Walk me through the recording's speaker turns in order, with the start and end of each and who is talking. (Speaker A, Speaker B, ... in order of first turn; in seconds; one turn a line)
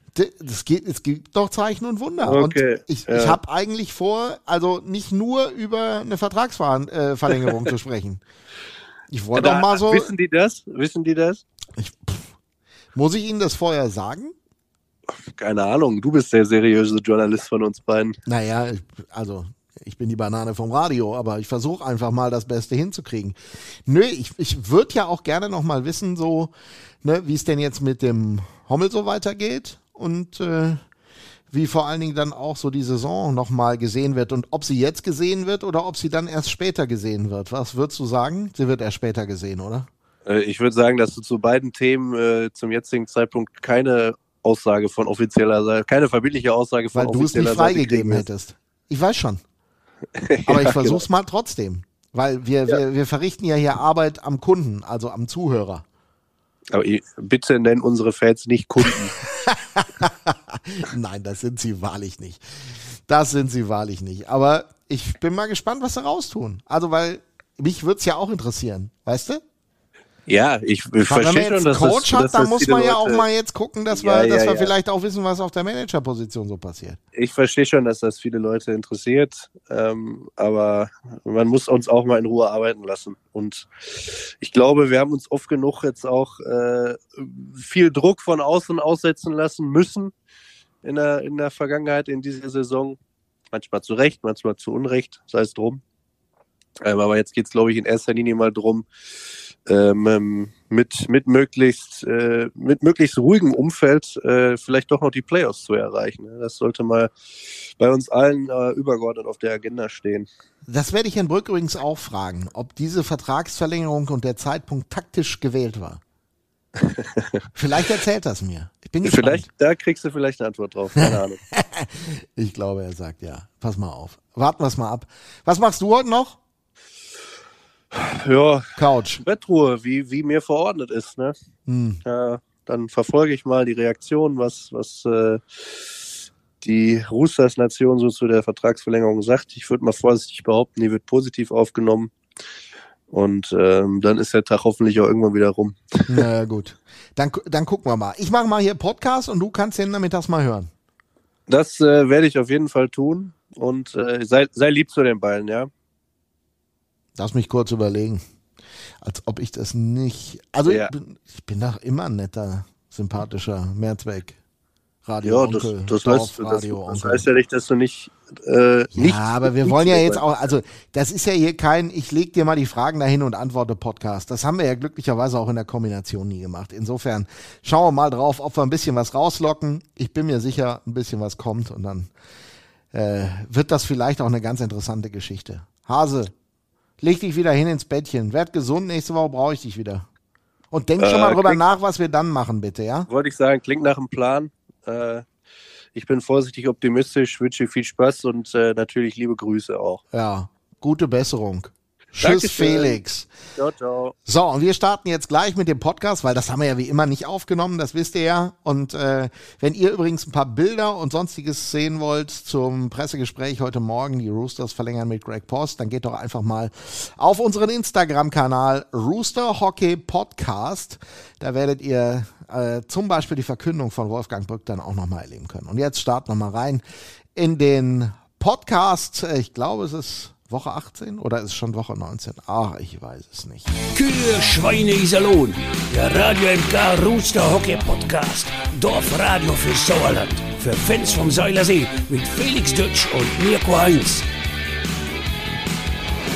Speaker A: 0.1-8.2
Speaker B: 2.2-3.4
Speaker A: 9.1-10.1
Speaker B: 9.3-11.4
Speaker A: 11.8-12.3
Speaker A: 12.9-14.3
Speaker B: 15.1-18.2
Speaker A: 18.3-26.5
Speaker A: 27.0-30.8
Speaker A: 31.5-39.9
Speaker B: 40.3-48.2
Speaker A: 46.9-49.4
Speaker B: 50.2-51.0
Speaker A: 50.5-55.9
Speaker B: 56.7-59.2
Speaker A: 59.2-62.4
Speaker A: 63.1-69.4
Speaker B: 70.3-73.2
Speaker A: 71.1-77.0
Speaker B: 73.9-74.7
Speaker B: 77.2-90.1
Speaker B: 90.8-93.0
Speaker B: 93.5-95.8
Speaker B: 96.8-98.9
Speaker B: 99.7-107.1
Speaker B: 107.8-110.3
Speaker A: 110.7-116.0
Speaker B: 116.9-117.3
Speaker A: 117.5-119.5
Speaker B: 119.0-121.4
Speaker A: 121.0-126.4
Speaker B: 127.9-131.4
Speaker A: 128.8-129.2
Speaker A: 131.7-132.0
Speaker B: 132.1-142.1
Speaker B: 143.1-146.2
Speaker A: 146.1-150.7
Speaker B: 151.5-155.7
Speaker A: 157.2-158.2
Speaker A: 159.0-164.4
Speaker A: 165.1-167.2
Speaker B: 165.2-170.2
Speaker A: 168.9-182.1
Speaker A: 182.9-186.3
Speaker A: 187.0-190.1
Speaker A: 190.7-193.1
Speaker B: 191.0-191.6
Speaker B: 193.1-195.2
Speaker B: 195.9-200.0
Speaker A: 200.1-203.3
Speaker B: 202.2-203.0
Speaker B: 203.6-204.2
Speaker A: 204.3-226.8
Speaker A: 227.3-233.7
Speaker C: 233.9-244.3